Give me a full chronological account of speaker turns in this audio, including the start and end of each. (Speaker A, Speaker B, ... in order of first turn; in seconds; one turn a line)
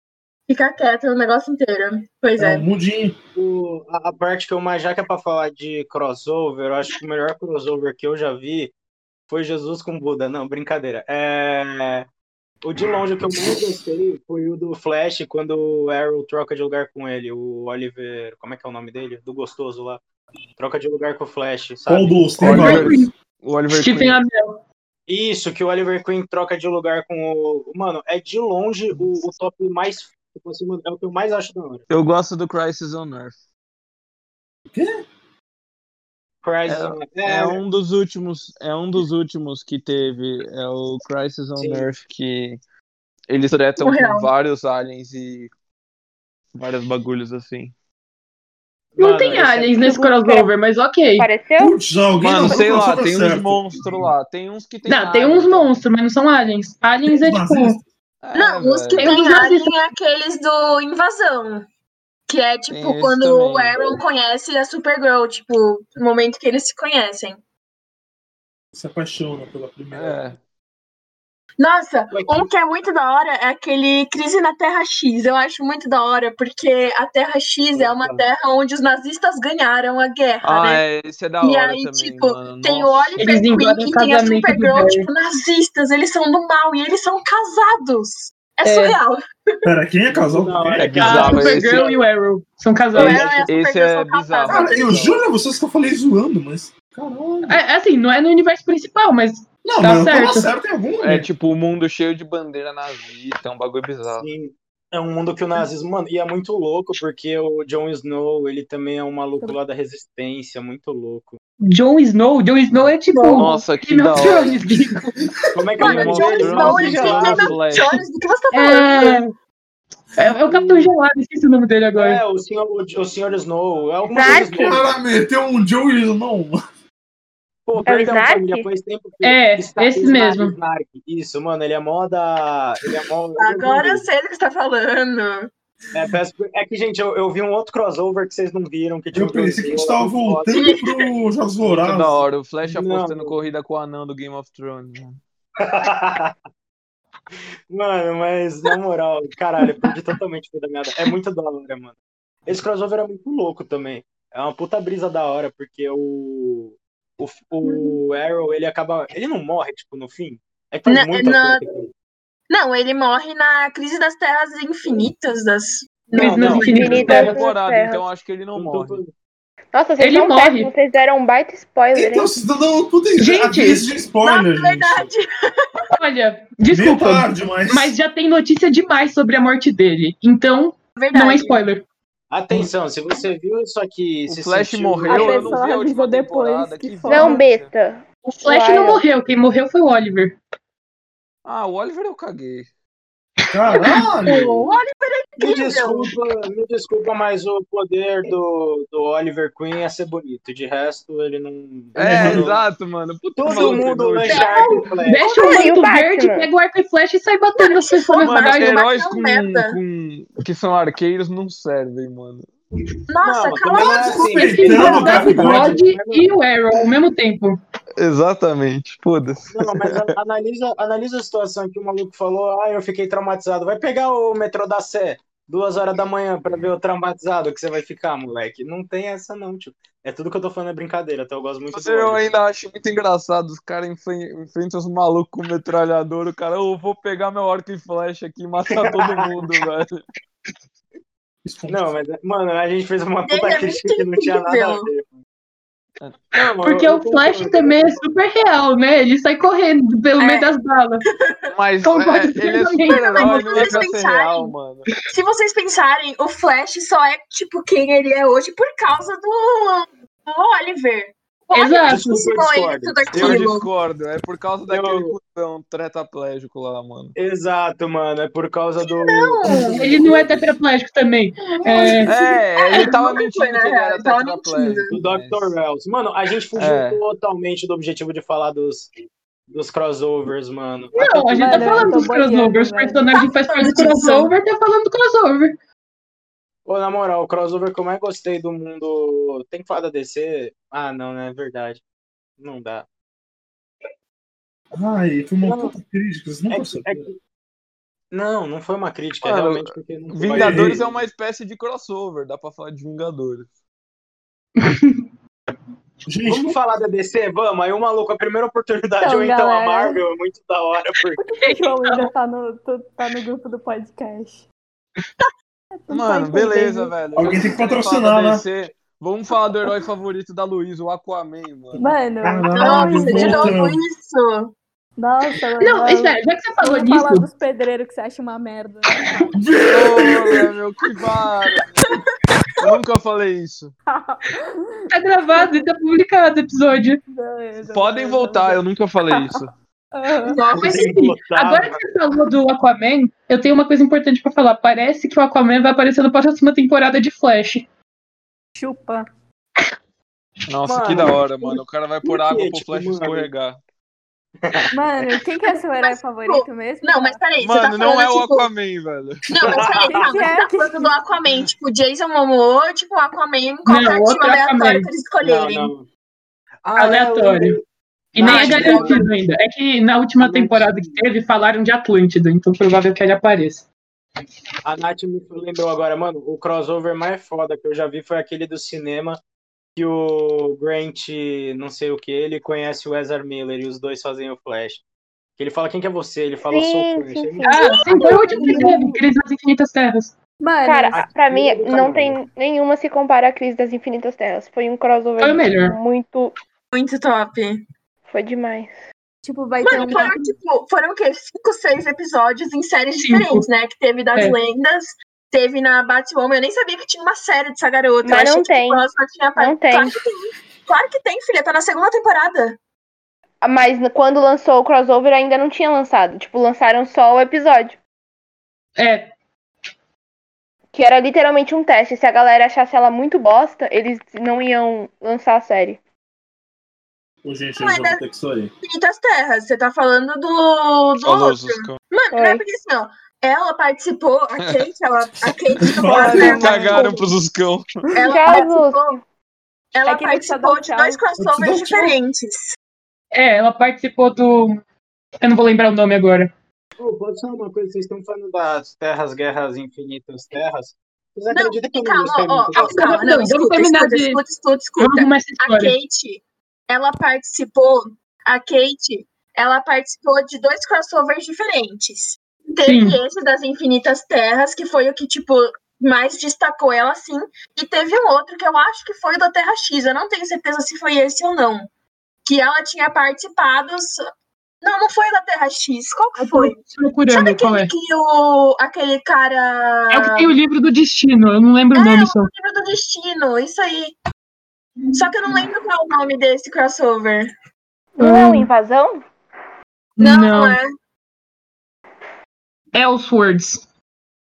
Speaker A: 0.5-2.6
Speaker B: 2.4-3.1
Speaker C: 3.3-8.7
Speaker C: 9.3-12.1
Speaker C: 12.6-20.0
Speaker C: 20.6-22.8
Speaker B: 21.9-23.0
Speaker D: 22.4-24.2
Speaker E: 22.4-23.1
Speaker E: 23.7-24.6
Speaker C: 25.1-31.9
Speaker D: 31.9-33.4
Speaker B: 34.7-35.0
Speaker C: 36.4-37.6
Speaker D: 36.6-42.6
Speaker C: 41.6-41.9
Speaker D: 43.3-45.5
Speaker A: 43.8-44.3
Speaker D: 46.5-47.7
Speaker C: 48.9-50.4
Speaker E: 49.0-51.3
Speaker F: 51.2-51.8
Speaker B: 51.6-54.1
Speaker D: 52.2-55.8
Speaker E: 54.9-57.8
Speaker B: 57.1-57.8
Speaker D: 58.2-59.1
Speaker A: 58.3-61.6
Speaker E: 59.0-59.7
Speaker A: 62.3-67.4
Speaker D: 62.7-63.7
Speaker B: 68.7-70.3
Speaker D: 69.9-70.4
Speaker A: 71.6-80.8
Speaker C: 72.1-72.5
Speaker C: 77.7-78.2
Speaker D: 80.4-83.2
Speaker A: 81.4-89.2
Speaker E: 83.2-85.1
Speaker E: 88.6-89.0
Speaker B: 89.6-91.4
Speaker C: 90.1-92.0
Speaker D: 90.8-91.8
Speaker E: 91.0-93.3
Speaker A: 93.0-94.8
Speaker C: 93.0-93.5
Speaker D: 93.5-95.2
Speaker B: 94.5-97.6
Speaker E: 97.5-100.5
Speaker B: 99.6-101.3
Speaker D: 101.0-104.2
Speaker C: 104.1-111.4
Speaker E: 111.6-115.0
Speaker A: 113.1-113.5
Speaker D: 113.3-114.6
Speaker C: 115.5-117.8
Speaker D: 115.8-117.9
Speaker A: 115.8-119.2
Speaker E: 118.5-119.3
Speaker E: 120.2-122.2
Speaker C: 120.5-120.9
Speaker C: 122.0-125.0
Speaker F: 124.1-124.8
Speaker B: 124.2-126.6
Speaker C: 127.7-134.1
Speaker F: 127.8-128.7
Speaker E: 129.2-130.6
Speaker A: 133.4-135.5
Speaker C: 135.9-140.6
Speaker B: 139.1-142.2
Speaker A: 140.5-141.1
Speaker D: 141.8-145.2
Speaker C: 142.6-143.3
Speaker C: 145.6-146.3
Speaker C: 147.7-151.9
Speaker C: 152.5-161.9
Speaker A: 160.8-161.6
Speaker A: 162.5-166.7
Speaker E: 166.1-167.4
Speaker C: 166.2-167.3
Speaker F: 166.7-168.1
Speaker D: 167.1-169.0
Speaker C: 168.6-169.1
Speaker F: 169.7-172.3
Speaker E: 170.0-170.7
Speaker B: 171.9-175.1
Speaker E: 173.2-173.9
Speaker A: 174.2-175.3
Speaker E: 176.0-181.8
Speaker B: 176.7-177.9
Speaker A: 180.9-181.6
Speaker C: 182.3-185.6
Speaker D: 184.3-187.7
Speaker G: 185.1-187.4
Speaker F: 187.1-189.0
Speaker E: 188.2-190.4
Speaker D: 191.4-192.7
Speaker B: 193.5-194.6
Speaker E: 193.7-194.0
Speaker A: 194.2-196.1
Speaker C: 195.4-202.6
Speaker D: 201.9-204.5
Speaker B: 202.0-202.5
Speaker C: 203.4-205.4
Speaker A: 204.3-204.8
Speaker E: 204.3-208.8
Speaker F: 205.3-206.5
Speaker A: 207.6-209.8
Speaker D: 208.2-212.5
Speaker A: 213.1-214.4
Speaker C: 213.2-216.3
Speaker E: 213.7-217.6
Speaker B: 214.2-215.8
Speaker D: 218.0-220.1
Speaker C: 219.5-232.3
Speaker D: 231.7-240.0
Speaker C: 238.7-239.4
Speaker B: 241.4-241.9
Speaker C: 241.7-245.2
Speaker A: 243.2-244.9
Speaker C: 246.3-248.0
Speaker E: 246.6-251.0
Speaker A: 250.2-250.5
Speaker D: 251.5-254.8
Speaker E: 251.8-253.8
Speaker A: 252.8-254.5
Speaker A: 255.1-263.7
Speaker E: 261.5-262.1
Speaker C: 261.9-263.5
Speaker D: 263.1-267.1
Speaker C: 264.7-265.1
Speaker C: 267.1-270.6
Speaker A: 268.8-269.8
Speaker E: 269.7-272.2
Speaker A: 271.6-274.9
Speaker D: 272.0-275.6
Speaker C: 274.9-278.9
Speaker D: 276.6-277.0
Speaker C: 279.5-281.9
Speaker E: 280.9-285.6
Speaker G: 281.4-283.1
Speaker A: 283.1-284.3
Speaker C: 286.6-291.8
Speaker C: 292.4-292.9
Speaker B: 294.7-297.1
Speaker C: 295.4-295.7
Speaker C: 296.5-297.2
Speaker C: 298.1-301.1
Speaker D: 299.2-303.5
Speaker B: 300.3-300.8
Speaker E: 304.6-305.0
Speaker B: 306.1-306.6
Speaker C: 306.3-311.2
Speaker G: 309.0-310.0
Speaker G: 311.2-314.5
Speaker E: 311.4-312.1
Speaker G: 315.8-316.9
Speaker D: 315.9-321.8
Speaker B: 317.1-318.4
Speaker G: 321.8-323.5
Speaker B: 321.8-323.8
Speaker A: 322.5-324.5
Speaker G: 325.0-329.3
Speaker E: 325.6-327.3
Speaker B: 329.4-330.5
Speaker D: 329.7-332.0
Speaker D: 332.5-333.7
Speaker G: 333.9-335.6
Speaker E: 334.9-337.0
Speaker G: 337.1-340.4
Speaker D: 337.6-339.5
Speaker A: 340.2-340.9
Speaker C: 340.5-341.8
Speaker E: 340.6-347.7
Speaker G: 348.6-349.1
Speaker D: 350.5-353.6
Speaker C: 350.7-353.3
Speaker C: 354.4-354.7
Speaker G: 354.7-357.2
Speaker A: 355.8-358.5
Speaker D: 357.4-359.4
Speaker A: 359.3-365.7
Speaker C: 359.4-360.1
Speaker G: 359.6-360.9
Speaker E: 363.6-364.9
Speaker C: 365.2-365.9
Speaker C: 366.6-367.6
Speaker E: 366.8-367.6
Speaker E: 368.1-373.6
Speaker C: 368.2-369.1
Speaker A: 368.2-369.0
Speaker C: 370.2-371.0
Speaker C: 374.6-379.2
Speaker C: 379.8-384.8
Speaker C: 385.4-388.1
Speaker F: 386.4-388.9
Speaker E: 387.4-390.1
Speaker A: 388.0-388.8
Speaker G: 390.4-391.0
Speaker F: 390.6-396.3
Speaker C: 390.9-392.2
Speaker E: 395.2-395.8
Speaker A: 396.7-397.6
Speaker F: 398.1-398.7
Speaker G: 399.2-400.3
Speaker A: 399.6-412.6
Speaker E: 403.0-403.4
Speaker F: 408.0-410.0
Speaker F: 413.4-417.8
Speaker E: 418.8-419.1
Speaker F: 420.7-425.8
Speaker B: 427.2-428.5
Speaker A: 427.6-428.0
Speaker A: 428.6-436.9
Speaker D: 431.0-431.8
Speaker F: 432.1-432.4
Speaker B: 435.6-436.6
Speaker G: 435.9-437.0
Speaker D: 436.1-437.7
Speaker A: 437.9-439.0
Speaker F: 438.0-439.0
Speaker A: 439.7-442.6
Speaker G: 439.9-441.0
Speaker B: 441.2-441.9
Speaker E: 443.1-444.6
Speaker E: 445.2-446.3
Speaker C: 446.8-452.9
Speaker A: 451.3-471.7
Speaker E: 452.5-454.2
Speaker E: 454.8-455.8
Speaker E: 462.6-463.0
Speaker A: 472.2-474.0
Speaker A: 474.6-480.3
Speaker E: 476.2-477.7
Speaker E: 479.9-482.3
Speaker A: 481.7-483.9
Speaker A: 484.9-487.3
Speaker F: 488.0-489.1
Speaker E: 488.0-488.5
Speaker E: 490.0-490.6
Speaker A: 490.0-490.7
Speaker E: 492.7-493.6